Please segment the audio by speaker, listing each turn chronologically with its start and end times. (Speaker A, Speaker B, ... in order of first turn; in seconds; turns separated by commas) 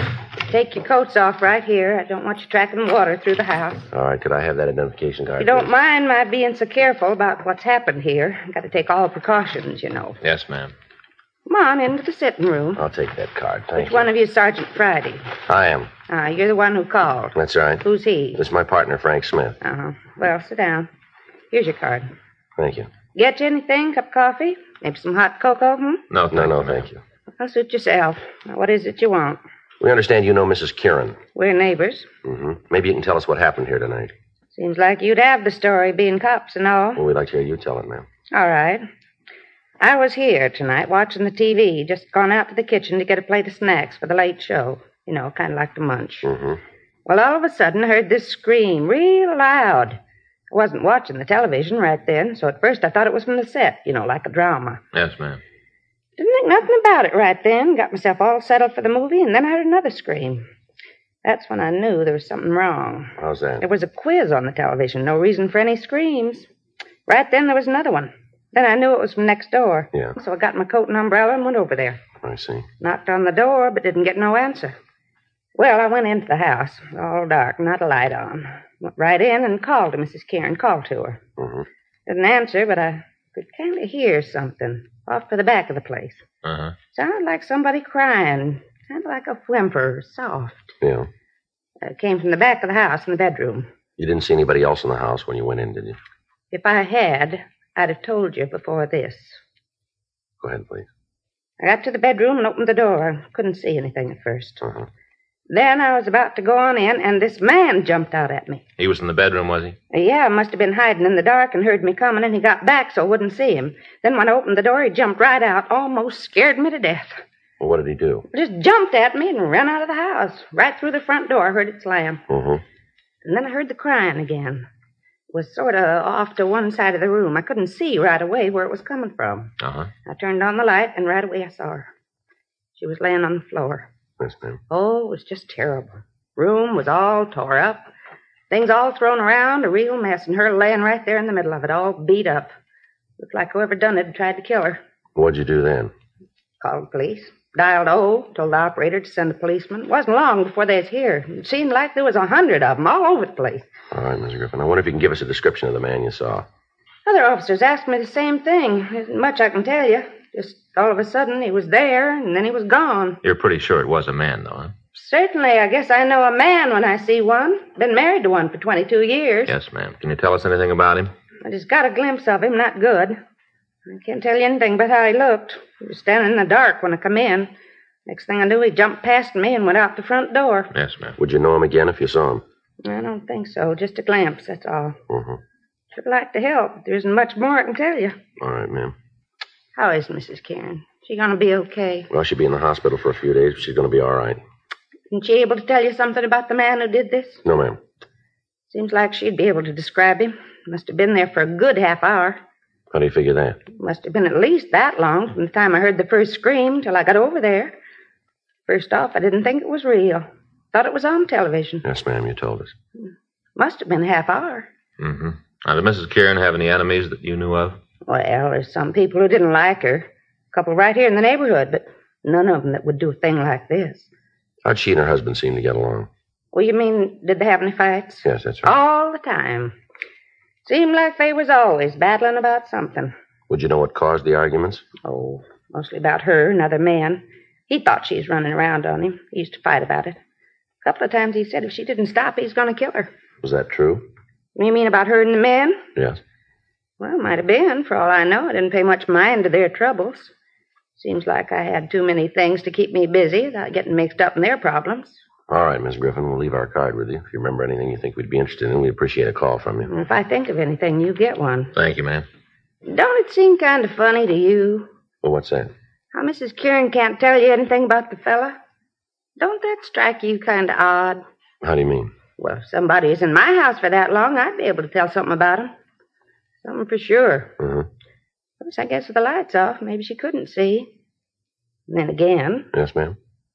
Speaker A: 0.5-3.9, Speaker B: 3.9-5.7, Speaker A: 5.4-10.2, Speaker C: 10.2-10.7, Speaker A: 11.5-12.8, Speaker B: 12.8-14.1, Speaker A: 13.8-15.2, Speaker B: 15.5-15.9, Speaker A: 16.1-18.4, Speaker B: 17.4-17.8, Speaker B: 18.4-19.6, Speaker A: 19.6-20.9, Speaker A: 21.5-22.1, Speaker B: 22.6-22.9, Speaker A: 23.1-26.0, Speaker C: 26.1-26.9, Speaker B: 26.3-27.0, Speaker A: 27.4-29.4, Speaker B: 29.8-31.2, Speaker A: 31.4-32.1, Speaker B: 32.2-34.1, Speaker A: 34.5-37.0, Speaker B: 37.0-38.1, Speaker A: 38.3-38.9, Speaker A: 39.8-46.3, Speaker B: 46.2-46.6, Speaker A: 47.1-50.0, Speaker A: 50.5-54.8, Speaker C: 54.9-55.4, Speaker A: 56.2-60.5, Speaker A: 61.2-66.5, Speaker B: 63.2-63.6, Speaker A: 67.1-72.0, Speaker B: 72.2-72.7, Speaker A: 72.8-74.8, Speaker A: 75.5-81.2, Speaker B: 81.4-81.7, Speaker A: 82.1-86.2, Speaker C: 86.4-86.8, Speaker A: 86.9-90.8, Speaker B: 90.8-91.1, Speaker A: 91.8-93.7, Speaker B: 94.0-96.0, Speaker A: 96.5-99.4, Speaker B: 100.4-100.9, Speaker A: 101.6-104.6, Speaker B: 104.6-104.9, Speaker A: 105.5-108.6, Speaker C: 108.8-109.8, Speaker A: 109.9-117.2, Speaker B: 117.6-118.3, Speaker A: 118.3-122.2, Speaker B: 122.3-122.6, Speaker A: 123.2-124.7, Speaker A: 125.3-129.5, Speaker C: 129.6-129.9, Speaker A: 130.1-131.9, Speaker A: 132.8-133.9, Speaker B: 134.2-134.6, Speaker A: 134.7-137.9, Speaker A: 138.5-142.5, Speaker A: 143.2-144.8, Speaker B: 145.2-145.9, Speaker A: 146.6-153.7, Speaker B: 153.9-156.4, Speaker A: 157.1-163.2, Speaker C: 163.2-164.7, Speaker A: 164.9-169.5, Speaker C: 169.5-171.1, Speaker A: 171.4-173.2, Speaker A: 173.9-177.5, Speaker A: 178.1-180.7, Speaker C: 180.7-181.2, Speaker B: 181.2-182.4, Speaker A: 182.8-185.0, Speaker B: 185.1-185.4, Speaker A: 185.9-188.2, Speaker B: 188.4-188.9, Speaker A: 189.8-192.1, Speaker B: 192.1-194.4, Speaker A: 195.1-197.4, Speaker B: 197.4-197.8, Speaker A: 198.7-202.4, Speaker B: 202.9-203.6, Speaker A: 203.8-207.8, Speaker A: 208.7-211.8, Speaker B: 211.8-212.7, Speaker A: 213.0-214.7, Speaker C: 215.0-217.8, Speaker A: 218.1-224.1, Speaker B: 224.7-226.1, Speaker A: 226.5-229.7, Speaker B: 228.2-228.8, Speaker A: 230.7-233.1, Speaker B: 233.5-234.8, Speaker A: 235.0-240.2, Speaker A: 240.8-243.1, Speaker B: 243.4-244.1, Speaker A: 244.6-245.8, Speaker A: 247.0-250.3, Speaker A: 251.0-255.2, Speaker B: 255.5-259.9, Speaker A: 259.9-261.8, Speaker C: 261.8-262.2, Speaker A: 262.9-264.9, Speaker B: 265.2-265.7, Speaker A: 266.1-268.6, Speaker A: 269.4-271.2, Speaker B: 271.6-272.1, Speaker A: 272.4-275.7, Speaker A: 276.6-277.5, Speaker B: 277.6-277.9, Speaker A: 278.6-280.9, Speaker A: 281.9-282.7, Speaker B: 282.7-283.2